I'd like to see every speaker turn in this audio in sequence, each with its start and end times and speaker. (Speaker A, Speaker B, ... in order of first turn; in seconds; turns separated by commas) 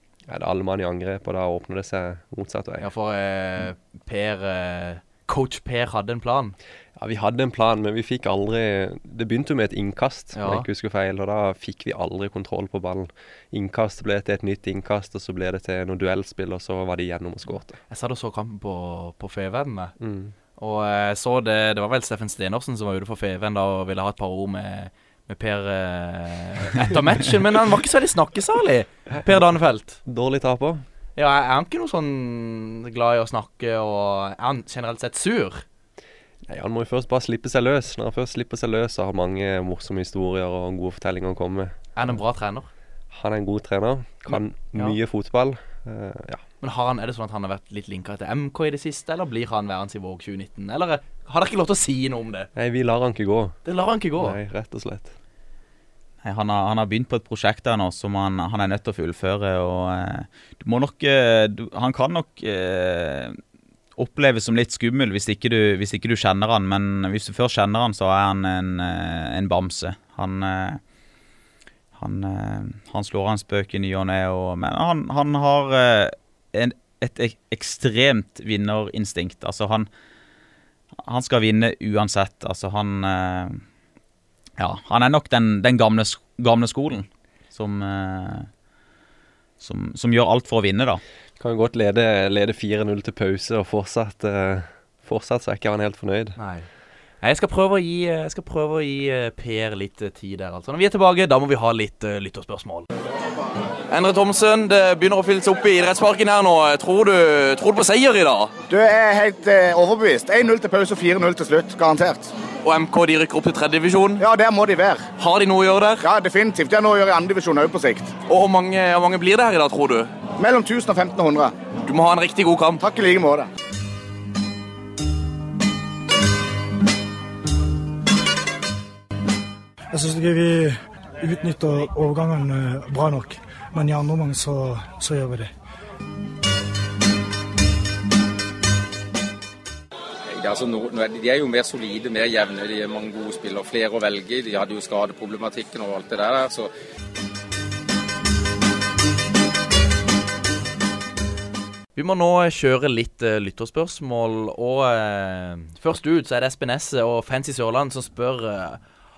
Speaker A: 0.3-2.9, Speaker B: 2.8-6.5, Speaker A: 7.0-17.8, Speaker B: 10.3-10.7, Speaker B: 17.9-19.9, Speaker A: 20.0-20.3, Speaker B: 20.6-30.0, Speaker A: 30.0-30.8, Speaker B: 31.1-35.6, Speaker A: 36.4-42.1, Speaker B: 42.0-42.7, Speaker A: 43.1-46.4, Speaker B: 44.3-45.0, Speaker B: 46.6-52.5, Speaker A: 52.5-53.6, Speaker B: 53.6-54.4, Speaker A: 54.2-55.1, Speaker C: 56.2-63.4, Speaker C: 64.0-70.8, Speaker C: 71.9-79.9, Speaker C: 81.0-83.6, Speaker C: 84.6-88.5, Speaker C: 89.6-91.0, Speaker A: 91.4-96.4, Speaker B: 96.4-96.7, Speaker B: 97.2-102.9, Speaker B: 103.9-108.5, Speaker D: 108.7-112.3, Speaker B: 112.6-114.2, Speaker D: 114.2-115.1, Speaker B: 115.2-116.0, Speaker D: 116.0-118.1, Speaker B: 118.3-120.1, Speaker D: 120.4-121.5, Speaker B: 121.8-122.8, Speaker D: 122.8-123.5, Speaker E: 129.9-135.5, Speaker F: 140.3-146.7, Speaker B: 151.9-158.8